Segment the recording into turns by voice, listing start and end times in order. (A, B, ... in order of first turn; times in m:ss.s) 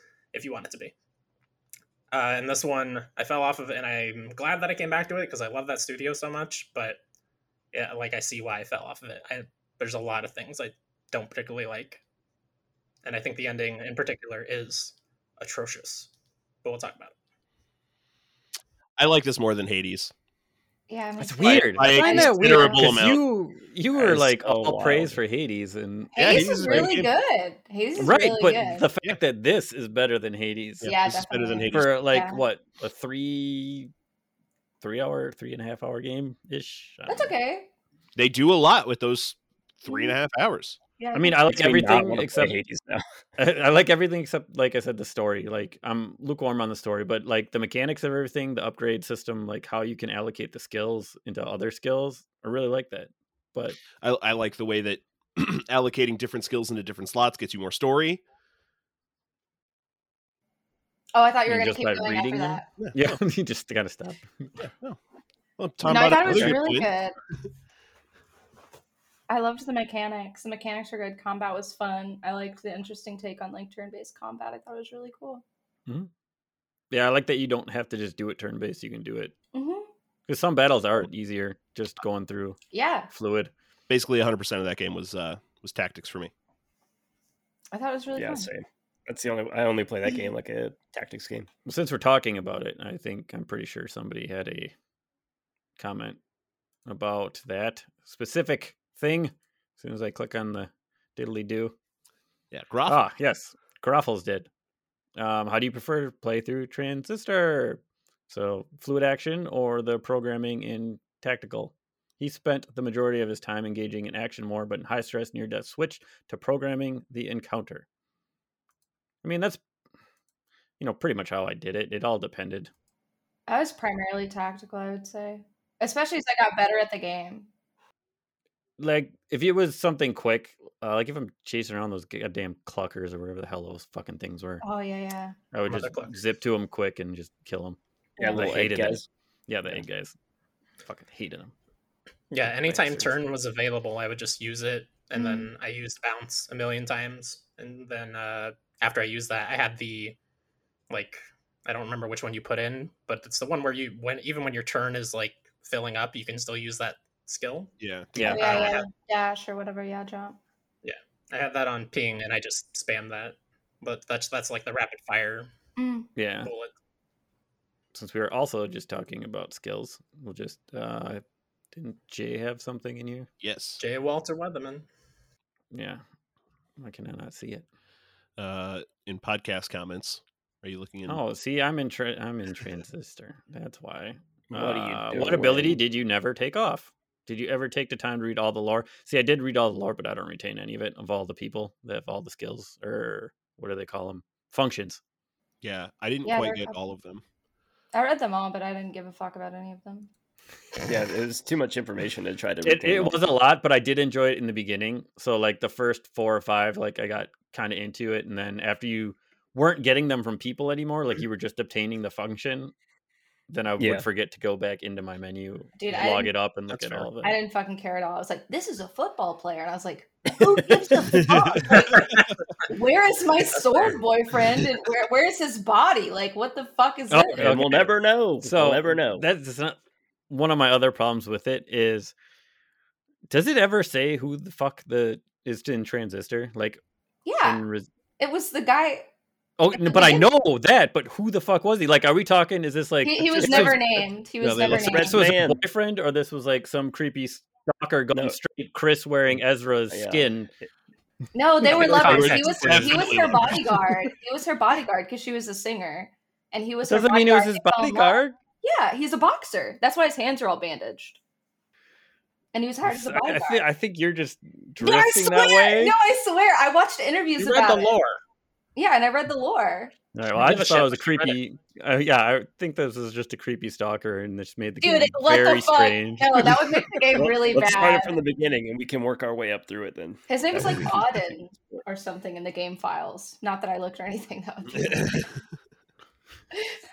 0:00.3-0:00.9 A
0:02.1-0:07.0 A
0:07.7-0:12.0 A
0:13.0-0:16.1 A
0:16.6-0:17.1 A
0:19.0-0:20.1 B
0:20.9-0:23.0 C
0:21.2-0:27.0 D
0:21.4-0:23.2 B
0:23.9-0:25.2 E
0:26.1-0:28.9 C
0:26.2-0:27.1 B
0:28.0-0:30.9 D
0:30.8-0:32.0 B
0:30.8-0:32.4 C
0:31.7-0:33.9 D
0:34.8-0:37.3 D
0:37.1-0:37.7 C
0:38.2-0:40.8 B
0:39.9-0:40.2 C
0:41.0-0:41.4 C
0:41.1-0:42.6 D
0:41.4-0:43.0 E
0:43.4-0:53.8 D
0:54.0-0:58.2 B
1:01.1-1:02.7 C
1:01.4-1:04.5 D
1:02.8-1:03.2 B
1:04.6-1:05.0 B
1:05.6-1:06.9 B
1:05.8-1:07.1 C
1:06.3-1:06.6 D
1:09.3-1:15.4 C
1:16.9-1:19.3 D
1:19.5-1:19.9 C
1:20.3-1:22.6 D
1:22.7-1:23.1 C
1:23.1-1:23.5 D
1:23.9-1:26.3 B
1:27.7-1:28.5 C
1:28.1-1:31.5 E
1:31.6-1:34.7 D
1:35.8-1:36.2 D
1:36.8-1:41.7 D
1:42.5-1:43.0 B
1:42.8-1:44.5 D
1:45.2-1:57.8 D
1:59.2-1:59.6 D
2:00.8-2:02.7 D
2:03.5-2:07.5 C
2:08.8-2:14.6 D
2:14.6-2:15.4 C
2:15.5-2:17.8 D
2:15.7-2:16.2 A
2:18.2-2:18.4 C
2:18.2-2:19.0 E
2:18.3-2:20.1 D
2:20.8-2:21.5 D
2:22.3-2:30.2 A
2:22.6-2:23.2 D
2:25.2-2:25.5 C
2:30.9-2:37.7 A
2:37.8-2:38.8 B
2:38.1-2:38.6 D
2:38.2-2:40.4 C
2:38.2-2:38.8 A
2:40.8-2:45.5 A
2:45.8-2:46.1 C
2:46.2-2:46.5 D
2:46.4-2:46.7 A
2:47.9-2:51.2 D
2:51.7-2:53.3 D
2:53.4-2:53.8 B
2:53.8-2:54.8 A
2:55.7-2:56.0 D
2:56.8-2:57.6 D
2:58.4-3:01.2 B
3:01.1-3:15.0 D
3:04.5-3:05.8 E
3:15.6-3:17.2 B
3:16.2-3:16.8 C
3:17.9-3:20.1 C
3:20.8-3:23.2 E
3:22.6-3:32.7 D
3:33.5-3:37.4 D
3:33.8-3:34.0 E
3:35.8-3:36.3 C
3:36.7-3:37.0 B
3:37.2-3:47.5 C
3:41.7-3:42.0 A
3:43.7-3:44.0 A
3:47.1-3:49.8 D
3:47.3-3:49.2 E
3:50.3-3:52.1 D
3:53.3-3:56.8 D
3:57.2-3:57.6 C
3:57.4-3:57.9 D
3:58.2-3:59.1 C
3:59.6-4:03.8 D
3:59.7-4:00.3 C
4:03.0-4:05.2 C
4:03.4-4:03.8 E
4:04.4-4:05.0 B
4:04.6-4:05.6 E
4:04.7-4:10.5 D
4:08.1-4:08.4 E
4:09.9-4:10.7 E
4:11.3-4:21.2 C
4:11.7-4:13.1 A
4:11.7-4:13.9 B
4:16.8-4:18.4 D
4:22.5-4:23.6 C
4:22.8-4:26.0 D
4:24.8-4:27.9 C
4:27.4-4:28.2 A
4:28.7-4:29.9 C
4:30.1-4:36.7 D
4:30.4-4:31.4 A
4:34.8-4:38.2 C
4:37.1-4:41.1 E
4:40.3-4:45.2 C